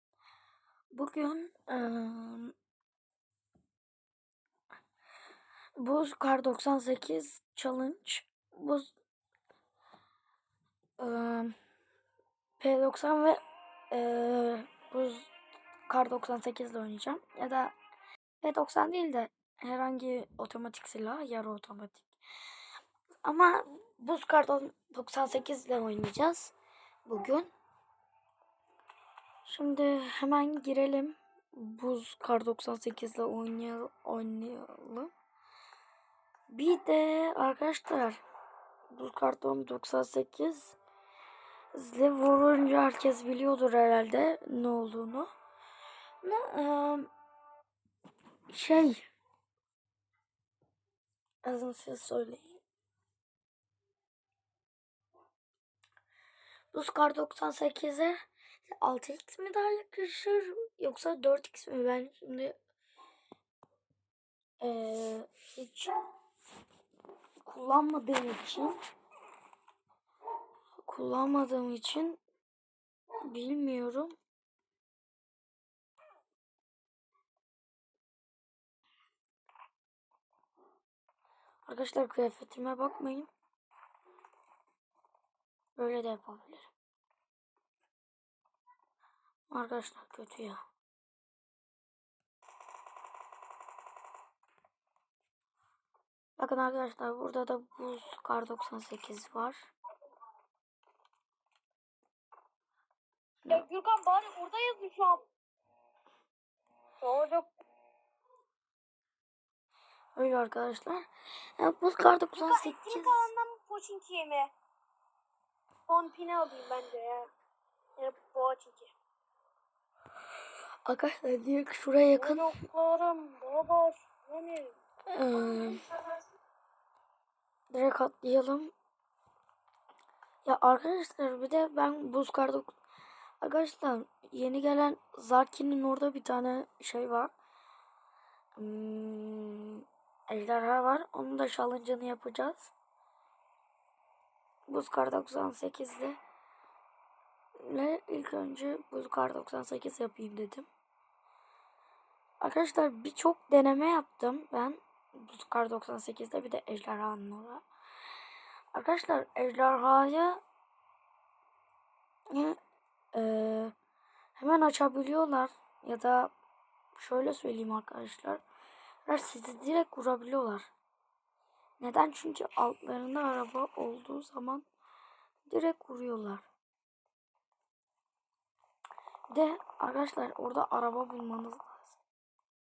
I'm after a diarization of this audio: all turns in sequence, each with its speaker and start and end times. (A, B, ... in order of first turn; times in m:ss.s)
0:00.9-0:02.5 A
0:05.8-0:08.9 A
0:11.0-0:11.5 A
0:12.6-0:15.3 A
0:15.9-0:17.7 A
0:18.4-0:22.1 A
0:23.2-0:26.5 A
0:27.0-0:27.5 A
0:29.4-0:35.1 A
0:36.5-0:38.2 A
0:38.9-0:40.8 A
0:41.7-0:45.3 A
0:46.2-0:47.1 A
0:48.5-0:49.0 A
0:51.4-0:52.6 A
0:56.7-1:02.6 A
1:04.6-1:06.0 A
1:07.4-1:08.7 A
1:10.9-1:12.2 A
1:13.3-1:14.1 A
1:21.6-1:23.3 A
1:25.8-1:26.7 A
1:29.5-1:30.6 A
1:36.4-1:39.7 A
1:43.5-1:45.3 B
1:47.0-1:47.5 B
1:50.2-1:53.3 A
1:52.3-1:54.5 B
1:55.9-1:57.3 B
1:58.0-1:58.9 B
2:00.8-2:02.6 A
2:02.2-2:04.7 B
2:05.1-2:05.9 A
2:05.4-2:05.9 B
2:07.7-2:08.7 A
2:10.4-2:12.8 A
2:13.4-2:17.3 A
2:18.6-2:22.7 A
2:24.7-2:26.2 A
2:27.6-2:30.7 A
2:32.4-2:37.6 A
2:38.7-2:40.4 A
2:42.3-2:42.6 A
2:43.1-2:43.7 A
2:44.4-2:46.3 A
2:46.9-2:48.4 A
2:49.0-2:50.7 A
2:51.8-2:54.6 A
2:55.4-2:56.5 A
2:59.3-3:02.0 A